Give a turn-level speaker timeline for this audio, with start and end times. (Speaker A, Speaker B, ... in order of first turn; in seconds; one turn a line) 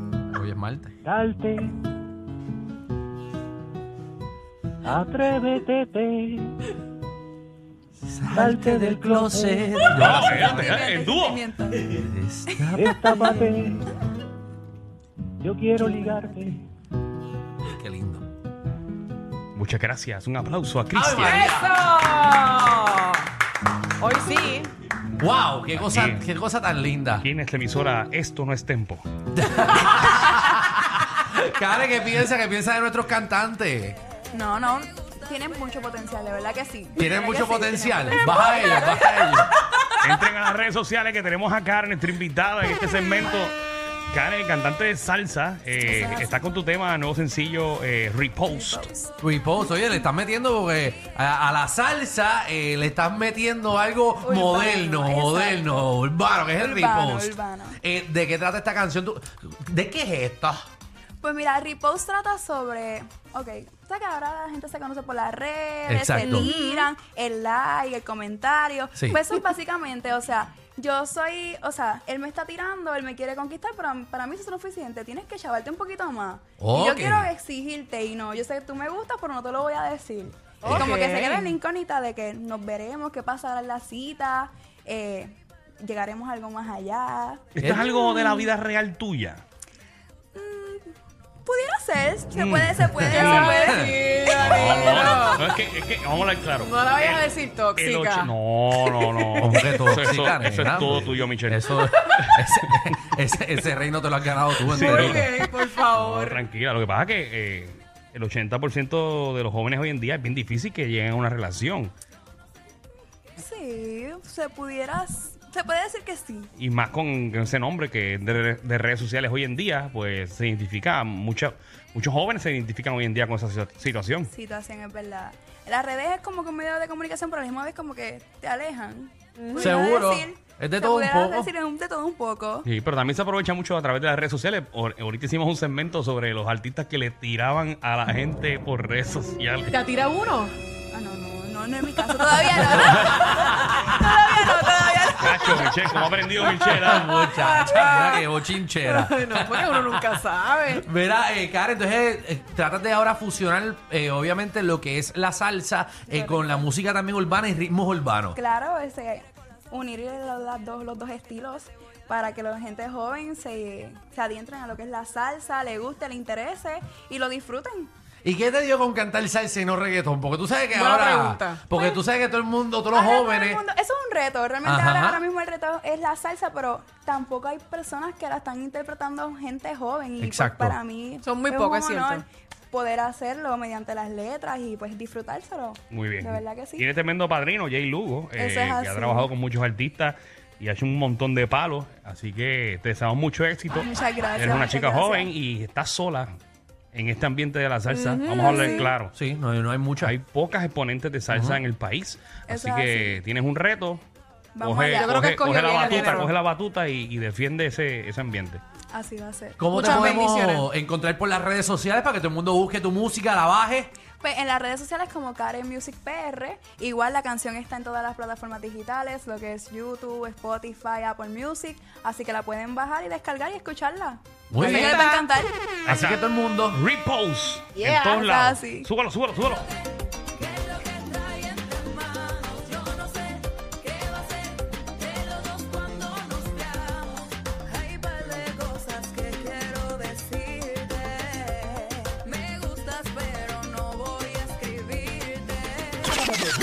Speaker A: 0.3-0.9
Speaker B: 1.1-1.7
Speaker B: 4.8-6.5
Speaker A: 8.0-10.8
Speaker B: 8.3-9.8
Speaker C: 9.9-11.4
Speaker D: 10.0-11.9
Speaker A: 11.9-13.8
Speaker D: 12.5-13.5
Speaker B: 12.8-13.8
Speaker B: 15.4-16.6
Speaker A: 17.7-18.2
Speaker C: 19.6-21.4
Speaker A: 20.9-21.8
Speaker E: 21.2-23.3
Speaker E: 24.0-24.7
Speaker A: 25.2-27.2
Speaker C: 25.8-26.2
Speaker C: 27.2-29.1
Speaker A: 29.3-34.0
Speaker D: 34.3-39.2
Speaker A: 37.0-39.5
Speaker C: 40.0-43.5
Speaker C: 44.1-48.8
Speaker D: 45.8-46.4
Speaker D: 48.5-49.1
Speaker A: 49.2-60.7
Speaker D: 54.2-55.9
Speaker D: 56.6-57.8
Speaker D: 61.2-88.5
Speaker A: 65.9-66.5
Speaker E: 66.2-66.9
Speaker A: 76.6-77.3
Speaker E: 80.6-81.6
Speaker A: 80.7-80.9
Speaker C: 87.6-89.4
Speaker A: 87.6-87.9
Speaker D: 90.3-90.9
Speaker D: 91.4-94.0
Speaker C: 92.3-93.6
Speaker A: 93.0-94.0
Speaker E: 93.2-95.5
Speaker C: 94.3-102.9
Speaker D: 94.7-95.3
Speaker E: 96.6-99.3
Speaker A: 99.4-105.4
Speaker E: 104.7-106.4
Speaker C: 104.7-111.9
Speaker D: 113.3-116.5
Speaker C: 116.6-124.3
Speaker D: 124.3-132.7
Speaker E: 129.4-129.8
Speaker A: 129.6-131.5
Speaker C: 132.7-139.8
Speaker E: 139.7-140.5
Speaker D: 140.9-146.0
Speaker C: 145.2-147.1
Speaker A: 146.7-158.4
Speaker E: 147.1-148.3
Speaker E: 148.8-150.8
Speaker D: 156.1-156.7
Speaker D: 158.3-167.9
Speaker A: 168.2-173.6
Speaker E: 170.7-171.6
Speaker D: 171.7-172.0
Speaker D: 172.9-186.9
Speaker A: 174.6-175.2
Speaker A: 180.2-180.8
Speaker E: 181.2-182.2
Speaker C: 185.9-196.3
Speaker D: 188.3-189.3
Speaker D: 193.8-195.3
Speaker C: 196.9-199.1
Speaker E: 197.9-198.9
Speaker D: 198.3-198.9
Speaker A: 199.1-200.2
Speaker C: 200.0-204.0
Speaker A: 201.3-201.6
Speaker D: 202.5-203.2
Speaker D: 204.6-206.2
Speaker C: 204.6-208.6
Speaker E: 204.9-206.3
Speaker D: 208.9-210.2
Speaker A: 209.6-213.9
Speaker E: 209.7-210.7
Speaker D: 214.2-225.6
Speaker A: 224.5-225.0
Speaker E: 224.6-225.2
Speaker A: 225.8-226.8
Speaker C: 225.9-229.7
Speaker D: 227.8-228.9
Speaker D: 230.3-246.2